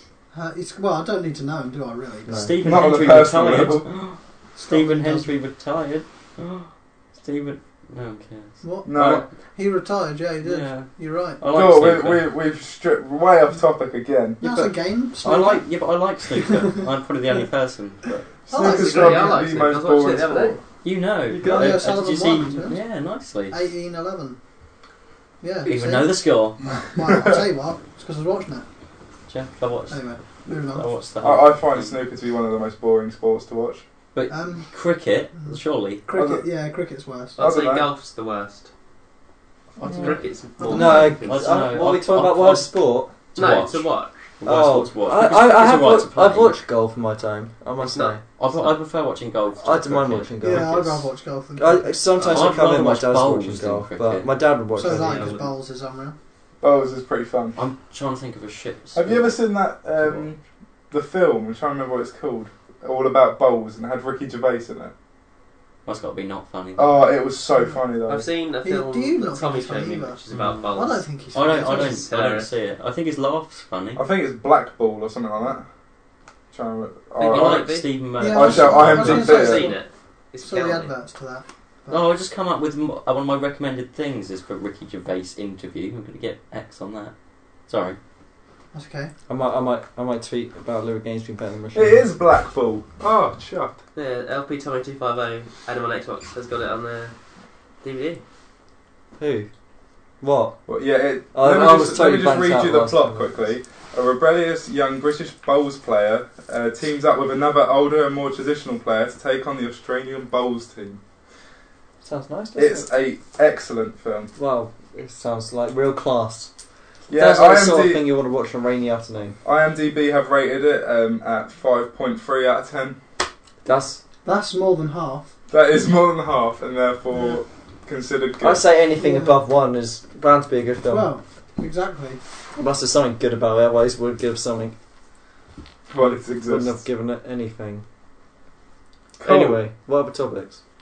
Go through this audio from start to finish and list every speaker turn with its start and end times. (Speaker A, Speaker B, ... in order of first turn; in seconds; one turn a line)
Speaker A: 0.3-2.6
Speaker B: 2.3-2.5
Speaker C: 2.3-9.1
Speaker D: 2.6-3.9
Speaker A: 4.5-5.3
Speaker A: 8.6-11.4
Speaker D: 8.8-9.3
Speaker C: 10.4-12.3
Speaker D: 11.5-14.4
Speaker A: 14.4-15.7
Speaker C: 14.4-18.3
Speaker A: 16.4-16.8
Speaker D: 18.5-20.6
Speaker A: 18.5-19.4
Speaker E: 18.6-20.6
Speaker C: 20.8-23.6
Speaker A: 21.3-22.8
Speaker A: 23.5-24.4
Speaker A: 25.4-28.6
Speaker C: 25.6-26.6
Speaker D: 27.1-27.4
Speaker C: 29.3-32.0
Speaker A: 29.9-30.9
Speaker D: 31.2-33.8
Speaker C: 34.1-36.0
Speaker A: 34.3-34.7
Speaker A: 35.4-37.4
Speaker D: 36.1-36.5
Speaker E: 37.4-38.7
Speaker D: 37.4-37.9
Speaker E: 39.8-41.5
Speaker A: 39.8-41.2
Speaker C: 39.9-40.2
Speaker B: 40.7-43.1
Speaker C: 41.2-46.6
Speaker E: 43.3-44.1
Speaker B: 44.4-48.2
Speaker E: 47.8-48.1
Speaker C: 48.4-50.3
Speaker B: 49.6-55.4
Speaker A: 50.4-52.0
Speaker C: 52.2-54.3
Speaker A: 54.7-56.1
Speaker E: 55.0-55.5
Speaker D: 56.6-57.6
Speaker C: 57.5-59.4
Speaker D: 58.9-60.4
Speaker D: 60.9-64.9
Speaker C: 65.8-67.0
Speaker D: 66.8-68.3
Speaker E: 68.1-72.5
Speaker A: 68.6-70.2
Speaker C: 70.3-70.7
Speaker A: 70.7-72.0
Speaker C: 71.3-74.0
Speaker D: 74.0-75.6
Speaker D: 76.5-79.7
Speaker E: 77.2-77.9
Speaker C: 77.2-79.4
Speaker A: 78.2-79.8
Speaker E: 79.1-80.9
Speaker A: 80.4-82.0
Speaker C: 81.9-87.1
Speaker C: 87.7-88.0
Speaker A: 88.7-89.1
Speaker B: 89.3-92.0
Speaker D: 91.7-93.8
Speaker E: 93.9-97.1
Speaker E: 97.8-98.2
Speaker B: 99.2-99.5
Speaker B: 100.2-100.6
Speaker D: 100.7-111.0
Speaker B: 101.3-103.3
Speaker B: 112.0-112.9
Speaker D: 112.5-114.3
Speaker B: 114.3-116.5
Speaker D: 117.1-118.1
Speaker B: 117.1-119.4
Speaker D: 119.4-123.0
Speaker B: 123.6-124.0
Speaker A: 124.2-125.3
Speaker D: 125.5-128.7
Speaker B: 128.4-131.1
Speaker A: 128.9-129.4
Speaker A: 130.9-132.2
Speaker B: 132.6-134.7
Speaker D: 135.9-136.8
Speaker B: 136.0-137.8
Speaker D: 139.2-139.6
Speaker B: 139.2-140.6